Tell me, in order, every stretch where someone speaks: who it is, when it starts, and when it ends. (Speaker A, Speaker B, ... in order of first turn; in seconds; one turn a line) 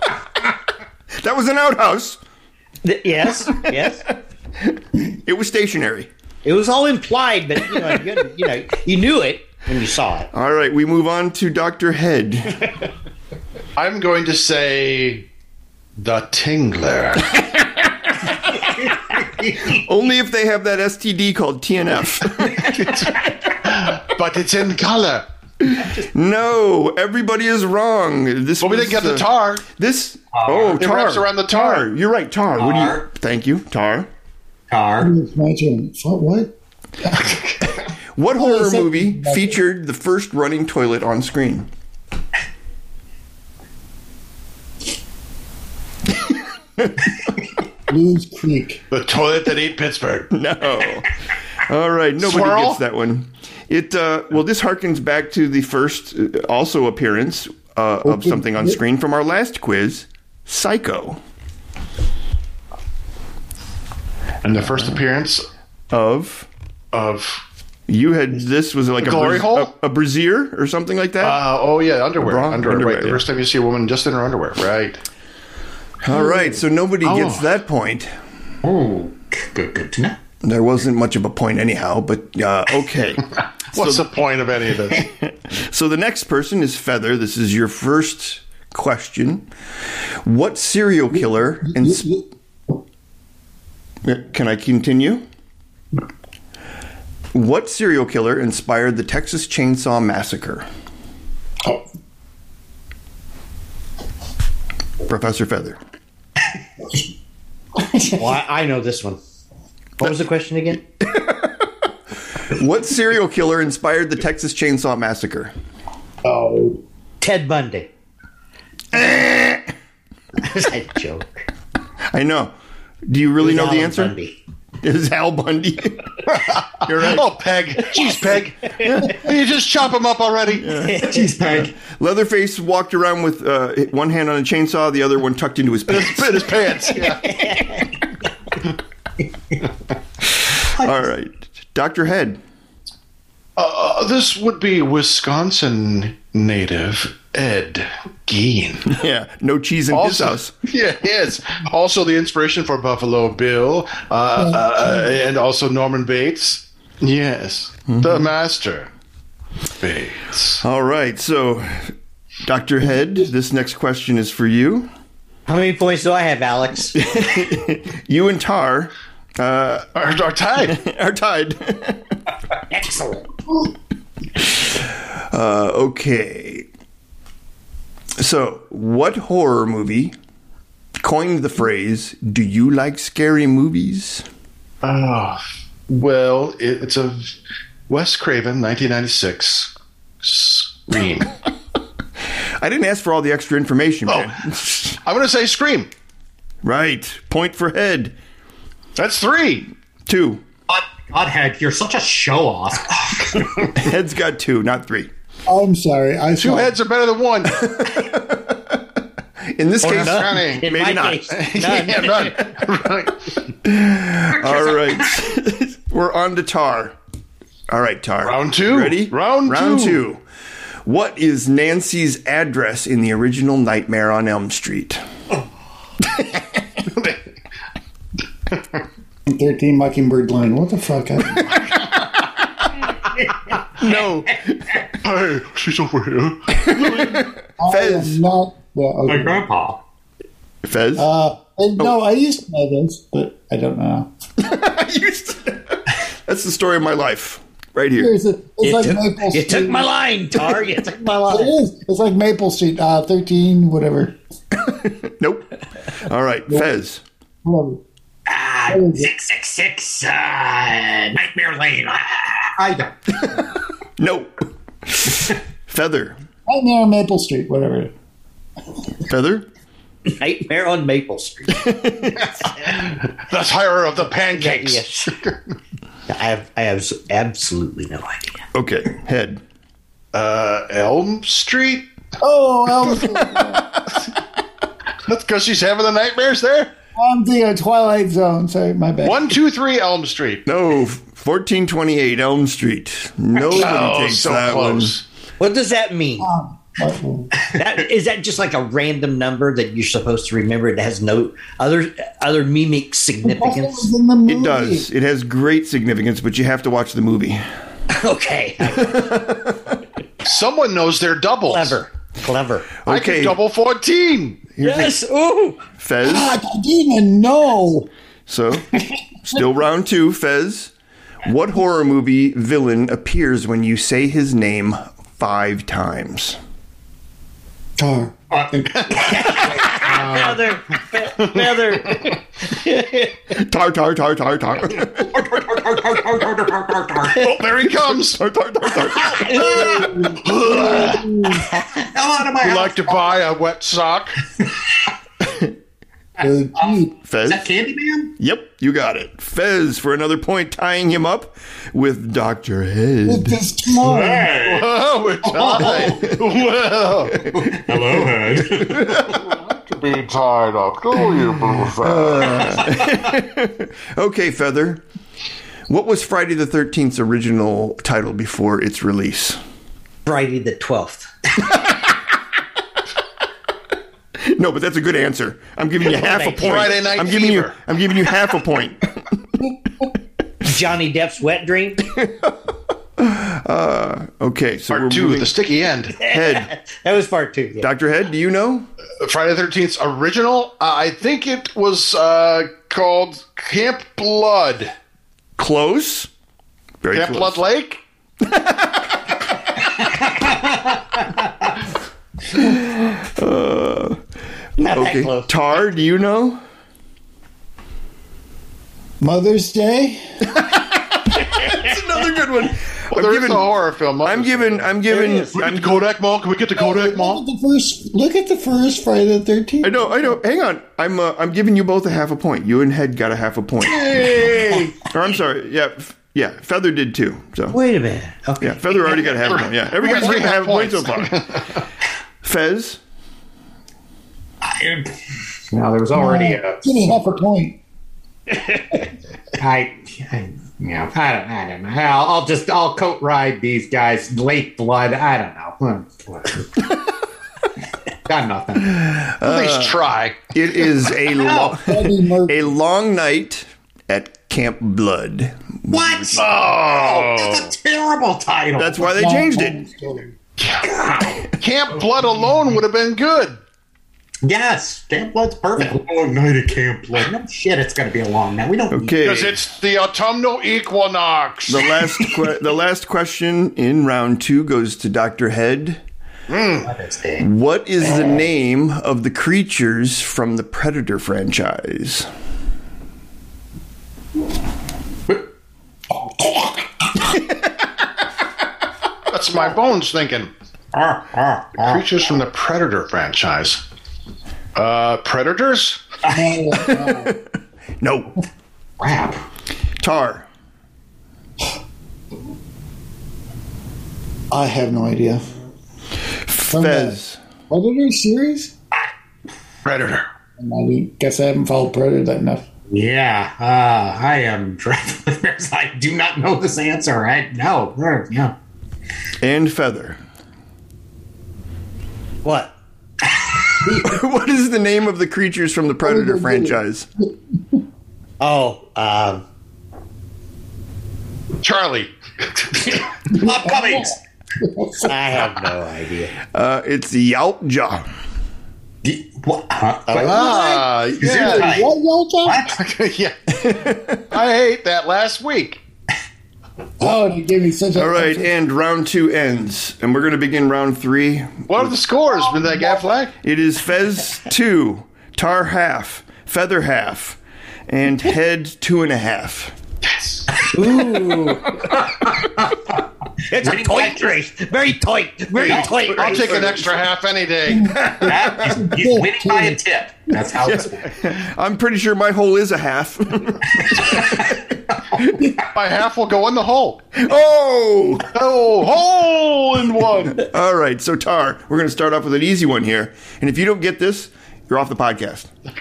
Speaker A: 1.2-2.2
Speaker B: 2.8-4.0
Speaker A: 4.7-6.1
Speaker B: 6.4-10.3
Speaker A: 10.3-12.7
Speaker C: 13.8-15.3
Speaker C: 16.0-17.4
Speaker D: 18.7-19.8
Speaker A: 19.7-23.2
Speaker C: 22.7-25.3
Speaker A: 25.6-34.1
Speaker D: 25.8-26.1
Speaker C: 28.6-29.6
Speaker D: 30.3-30.7
Speaker C: 30.7-31.9
Speaker D: 32.6-33.1
Speaker D: 34.7-35.1
Speaker E: 35.0-37.4
Speaker A: 38.2-41.7
Speaker E: 38.3-39.6
Speaker A: 46.8-47.2
Speaker E: 47.9-48.8
Speaker C: 48.9-50.3
Speaker A: 50.3-51.1
Speaker A: 51.6-61.2
Speaker C: 52.2-52.8
Speaker E: 58.0-58.8
Speaker C: 64.4-65.5
Speaker A: 64.7-65.0
Speaker A: 65.9-66.5
Speaker C: 66.9-67.4
Speaker A: 67.9-71.4
Speaker C: 69.0-69.7
Speaker C: 71.2-75.0
Speaker A: 72.2-73.2
Speaker A: 76.0-78.1
Speaker C: 77.0-77.5
Speaker D: 78.6-80.2
Speaker A: 80.4-84.1
Speaker C: 83.7-85.1
Speaker A: 85.0-89.5
Speaker A: 90.2-92.1
Speaker E: 91.1-92.2
Speaker A: 94.0-95.2
Speaker A: 97.3-100.7
Speaker A: 105.0-105.8
Speaker E: 107.9-108.2
Speaker B: 108.1-109.2
Speaker B: 110.0-110.8
Speaker A: 111.0-111.5
Speaker A: 112.5-115.5
Speaker E: 116.2-116.8
Speaker B: 117.2-117.9
Speaker A: 118.9-119.6
Speaker B: 120.4-121.4
Speaker A: 122.1-122.5
Speaker A: 123.1-124.1
Speaker B: 123.4-124.4
Speaker A: 124.8-127.2
Speaker C: 126.3-130.7
Speaker A: 128.8-129.3
Speaker A: 130.6-136.8
Speaker B: 130.8-131.3
Speaker D: 130.9-131.7
Speaker C: 135.9-137.4
Speaker B: 137.1-137.9
Speaker A: 140.5-142.4
Speaker C: 143.6-148.9
Speaker A: 148.9-150.6
Speaker C: 149.9-158.9
Speaker A: 157.9-158.3
Speaker C: 159.8-160.6
Speaker A: 160.6-161.9
Speaker A: 162.4-164.9
Speaker B: 165.5-167.0
Speaker A: 167.0-169.9
Speaker C: 169.9-170.8
Speaker A: 170.6-172.0
Speaker D: 172.7-173.2
Speaker A: 174.4-176.7
Speaker A: 178.2-180.1
Speaker A: 181.0-184.3
Speaker C: 184.8-187.3
Speaker C: 187.9-191.3
Speaker A: 192.6-195.0
Speaker C: 194.1-194.3
Speaker C: 195.0-195.9
Speaker A: 196.6-198.1
Speaker C: 198.9-199.7
Speaker A: 200.1-200.4
Speaker D: 200.7-203.7
Speaker A: 203.7-205.1
Speaker E: 205.5-206.8
Speaker C: 206.4-207.5
Speaker A: 207.5-208.8
Speaker A: 209.5-211.3
Speaker C: 209.8-210.7
Speaker B: 209.8-212.4
Speaker C: 211.3-213.2
Speaker A: 213.6-216.9
Speaker A: 217.7-220.2
Speaker C: 218.2-220.0
Speaker A: 220.8-225.0
Speaker A: 226.1-226.4
Speaker C: 226.9-227.2
Speaker E: 229.3-231.6
Speaker C: 233.8-234.4
Speaker A: 233.8-234.8
Speaker C: 235.0-237.2
Speaker A: 236.5-238.2
Speaker E: 237.6-239.4
Speaker D: 239.1-239.8
Speaker A: 240.7-241.1
Speaker E: 241.0-244.1
Speaker A: 244.4-248.1
Speaker E: 248.0-249.9
Speaker B: 248.6-251.5
Speaker E: 251.3-254.1
Speaker A: 254.6-257.0
Speaker E: 257.4-257.8
Speaker D: 258.3-262.9
Speaker E: 258.7-259.1
Speaker A: 263.2-263.4
Speaker A: 264.0-264.3
Speaker A: 264.9-266.2
Speaker E: 266.5-267.9
Speaker A: 269.1-269.5
Speaker B: 270.2-271.7
Speaker A: 271.6-272.2
Speaker B: 272.4-273.0
Speaker C: 272.9-275.3
Speaker B: 274.3-275.2
Speaker B: 276.1-278.4
Speaker A: 278.5-279.4
Speaker C: 280.1-281.9
Speaker E: 282.2-283.7
Speaker A: 283.2-283.5
Speaker C: 285.1-286.7
Speaker E: 287.0-289.4
Speaker C: 289.0-290.4
Speaker A: 290.5-294.9
Speaker C: 293.4-295.0
Speaker B: 295.4-296.3
Speaker E: 296.2-297.3
Speaker B: 297.5-303.9
Speaker E: 303.2-304.9
Speaker A: 304.3-307.4
Speaker B: 307.9-309.1
Speaker A: 308.8-309.8
Speaker C: 310.2-311.8
Speaker B: 311.5-312.7
Speaker A: 312.9-313.4
Speaker C: 312.9-314.5
Speaker B: 314.6-315.6
Speaker A: 315.8-316.4
Speaker E: 316.0-317.9
Speaker A: 318.3-318.8
Speaker A: 319.3-326.4
Speaker E: 327.8-328.9
Speaker D: 328.3-330.5
Speaker C: 328.7-329.2
Speaker B: 328.9-333.2
Speaker C: 331.2-332.1
Speaker A: 333.3-335.1
Speaker D: 335.1-337.4
Speaker C: 337.1-338.2
Speaker A: 338.1-339.9
Speaker B: 338.9-339.9
Speaker D: 339.2-340.2
Speaker E: 339.6-341.4
Speaker C: 340.2-341.1
Speaker B: 341.3-341.9
Speaker D: 341.9-343.1
Speaker C: 342.4-344.2
Speaker E: 346.2-346.9
Speaker D: 346.6-348.1
Speaker A: 347.1-347.5
Speaker A: 348.2-353.4
Speaker E: 353.1-354.3
Speaker D: 353.8-356.0
Speaker C: 354.3-357.2
Speaker A: 355.8-356.3
Speaker D: 357.2-359.0
Speaker A: 357.2-359.2
Speaker C: 359.3-362.0
Speaker E: 361.1-362.7
Speaker A: 361.8-364.8
Speaker A: 365.7-369.4
Speaker B: 370.1-371.1
Speaker A: 374.2-378.9
Speaker B: 375.9-376.7
Speaker C: 376.3-377.6
Speaker B: 380.4-381.9
Speaker A: 381.9-382.3
Speaker A: 383.0-385.4
Speaker C: 384.7-386.0
Speaker B: 386.0-387.7
Speaker A: 386.0-386.5
Speaker A: 387.6-388.7
Speaker C: 389.0-394.7
Speaker A: 395.4-396.1
Speaker A: 396.8-397.4
Speaker C: 396.9-397.8
Speaker A: 398.2-399.0
Speaker D: 400.1-400.6
Speaker A: 402.3-404.0
Speaker B: 404.6-405.3
Speaker A: 404.7-406.4
Speaker E: 409.0-410.2
Speaker A: 410.4-413.5
Speaker C: 412.9-417.2
Speaker A: 414.0-415.8
Speaker E: 416.6-420.1
Speaker A: 419.6-424.0
Speaker C: 423.8-424.7
Speaker A: 424.8-427.6
Speaker B: 427.5-429.1
Speaker A: 428.4-431.4
Speaker C: 429.3-431.6
Speaker A: 432.2-432.8
Speaker D: 434.4-434.9
Speaker D: 435.5-436.6
Speaker E: 435.9-437.6
Speaker D: 439.4-446.5
Speaker D: 448.1-448.9
Speaker A: 448.6-456.4
Speaker C: 449.2-450.3
Speaker D: 451.2-451.5
Speaker E: 451.5-452.6
Speaker D: 455.7-458.9
Speaker C: 456.2-457.5
Speaker A: 458.6-459.6
Speaker E: 458.8-460.1
Speaker C: 460.4-460.7
Speaker D: 460.6-461.3
Speaker C: 461.4-463.4
Speaker D: 464.2-469.0
Speaker A: 468.7-469.4
Speaker C: 469.0-471.8
Speaker A: 471.5-475.8
Speaker C: 476.3-476.7
Speaker D: 476.6-477.3
Speaker A: 477.2-482.1
Speaker D: 486.2-486.5
Speaker C: 489.1-490.3
Speaker D: 490.7-491.9
Speaker C: 491.6-493.6
Speaker C: 494.6-495.8
Speaker D: 496.1-496.3
Speaker E: 496.1-497.1
Speaker A: 496.7-497.2
Speaker A: 497.8-498.2
Speaker D: 498.8-499.2
Speaker A: 499.8-500.3
Speaker E: 504.3-505.2
Speaker A: 506.2-507.2
Speaker E: 506.5-508.5
Speaker C: 509.6-510.0
Speaker E: 510.4-512.5
Speaker D: 512.7-518.3
Speaker A: 519.2-520.0
Speaker B: 522.2-522.5
Speaker A: 523.7-526.9
Speaker E: 525.8-527.1
Speaker B: 528.2-529.2
Speaker C: 531.4-532.8
Speaker D: 533.1-534.0
Speaker E: 533.1-535.0
Speaker B: 534.9-536.1
Speaker A: 536.3-537.9
Speaker D: 538.8-541.7
Speaker C: 539.9-541.7
Speaker E: 541.0-542.5
Speaker D: 542.2-542.6
Speaker C: 542.5-543.2
Speaker A: 543.3-544.1
Speaker C: 544.1-545.6
Speaker E: 546.8-548.3
Speaker A: 547.8-551.7
Speaker C: 551.5-553.1
Speaker A: 553.2-559.6
Speaker C: 560.0-560.2
Speaker B: 560.4-561.6
Speaker D: 561.6-562.7
Speaker B: 563.3-566.7
Speaker D: 563.4-564.2
Speaker C: 565.4-567.8
Speaker D: 566.1-566.5
Speaker E: 567.5-569.6
Speaker A: 567.9-568.2
Speaker D: 567.9-570.9
Speaker A: 570.4-575.3
Speaker D: 573.7-574.2
Speaker C: 575.4-576.8
Speaker A: 577.0-578.1
Speaker C: 578.1-580.3
Speaker A: 580.2-585.3